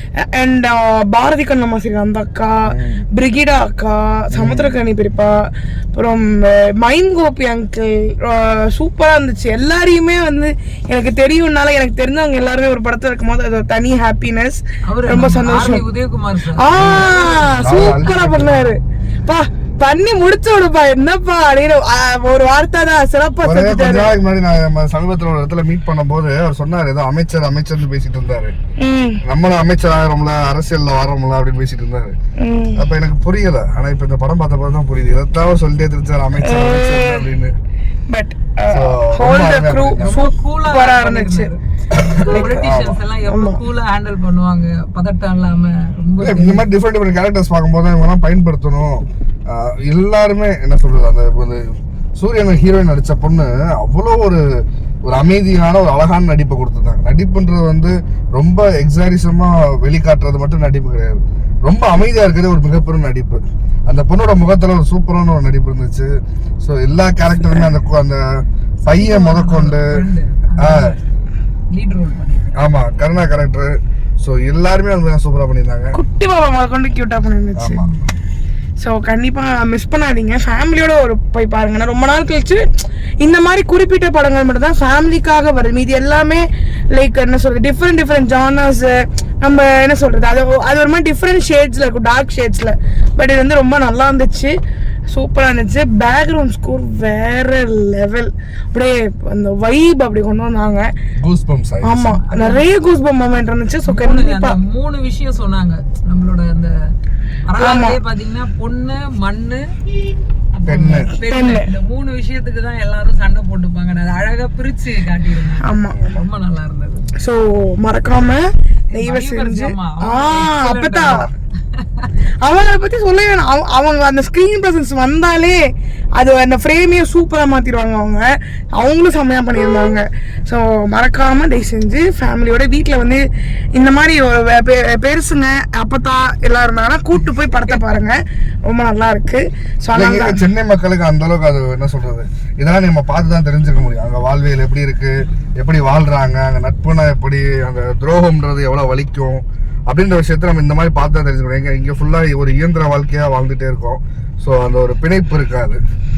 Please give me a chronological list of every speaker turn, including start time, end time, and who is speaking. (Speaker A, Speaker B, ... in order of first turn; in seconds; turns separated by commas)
Speaker A: 0.3-15.8, Speaker B: 2.7-3.1, Speaker B: 4.3-4.8, Speaker C: 14.9-17.6, Speaker A: 16.6-24.1, Speaker B: 16.7-17.1, Speaker B: 17.6-18.8, Speaker B: 23.4-28.6, Speaker A: 28.8-29.2, Speaker B: 29.2-32.1, Speaker A: 32.4-32.9, Speaker B: 32.8-37.5, Speaker A: 36.4-37.3, Speaker A: 38.1-41.5, Speaker B: 38.7-40.2, Speaker C: 40.0-46.7, Speaker B: 41.9-43.0, Speaker A: 42.2-42.7, Speaker A: 43.3-43.6, Speaker B: 46.2-69.9, Speaker C: 68.9-71.0, Speaker B: 70.6-71.0, Speaker C: 71.7-72.5, Speaker B: 72.5-76.0, Speaker A: 75.9-77.8, Speaker B: 77.6-77.9, Speaker C: 77.8-78.1, Speaker A: 78.8-82.7, Speaker A: 83.2-94.5, Speaker A: 95.1-100.9, Speaker B: 101.2-102.0, Speaker A: 101.8-104.6, Speaker C: 102.1-102.7, Speaker C: 103.9-106.7, Speaker C: 107.5-109.6, Speaker A: 107.6-108.0, Speaker C: 110.5-117.1, Speaker B: 110.7-111.1, Speaker A: 111.3-111.7, Speaker A: 115.6-116.2, Speaker A: 117.2-121.3, Speaker C: 118.9-122.1, Speaker A: 122.4-125.6, Speaker A: 126.2-133.2, Speaker A: 133.8-140.4, Speaker B: 139.9-155.8